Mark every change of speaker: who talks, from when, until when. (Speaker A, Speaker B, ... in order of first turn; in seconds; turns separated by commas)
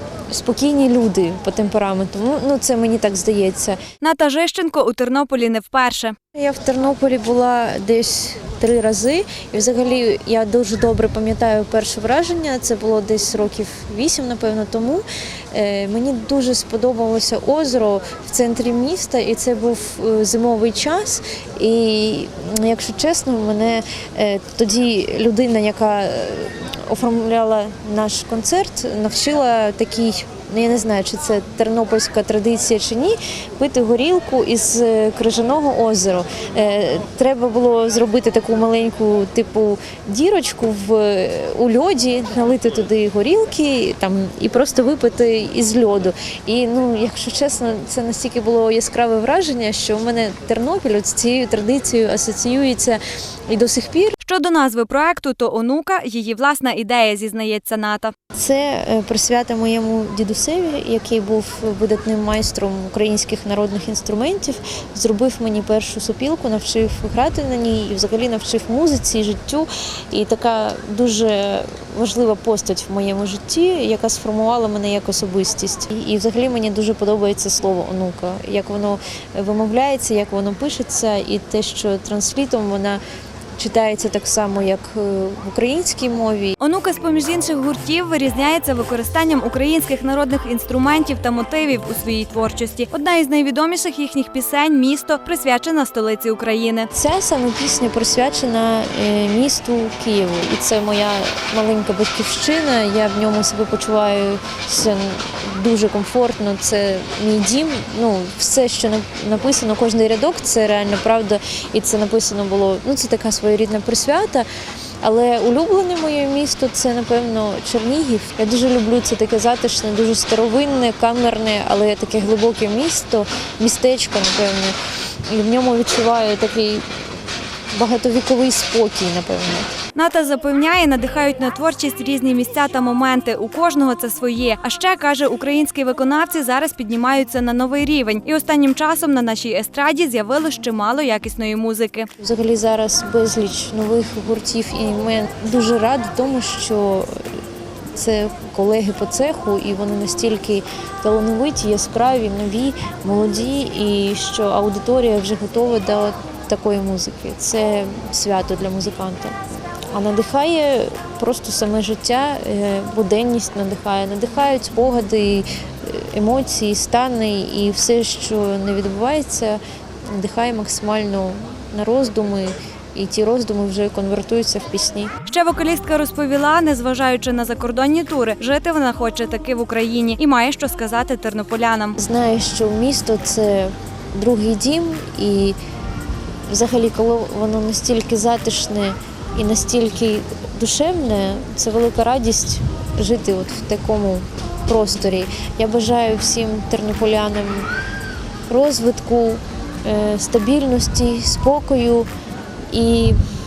Speaker A: 0.3-3.8, Speaker B: 4.0-6.2, Speaker A: 6.3-54.2, Speaker B: 54.2-58.1, Speaker A: 58.4-83.0, Speaker A: 83.6-86.6, Speaker B: 86.6-96.9, Speaker A: 96.9-114.5, Speaker A: 115.0-124.8, Speaker A: 125.3-126.8, Speaker A: 127.7-129.7, Speaker B: 129.9-142.1, Speaker A: 142.2-147.3, Speaker A: 147.9-159.4, Speaker A: 159.9-175.1, Speaker B: 175.3-182.0, Speaker A: 182.0-185.6, Speaker A: 186.5-197.7, Speaker A: 198.5-202.1, Speaker A: 202.7-203.2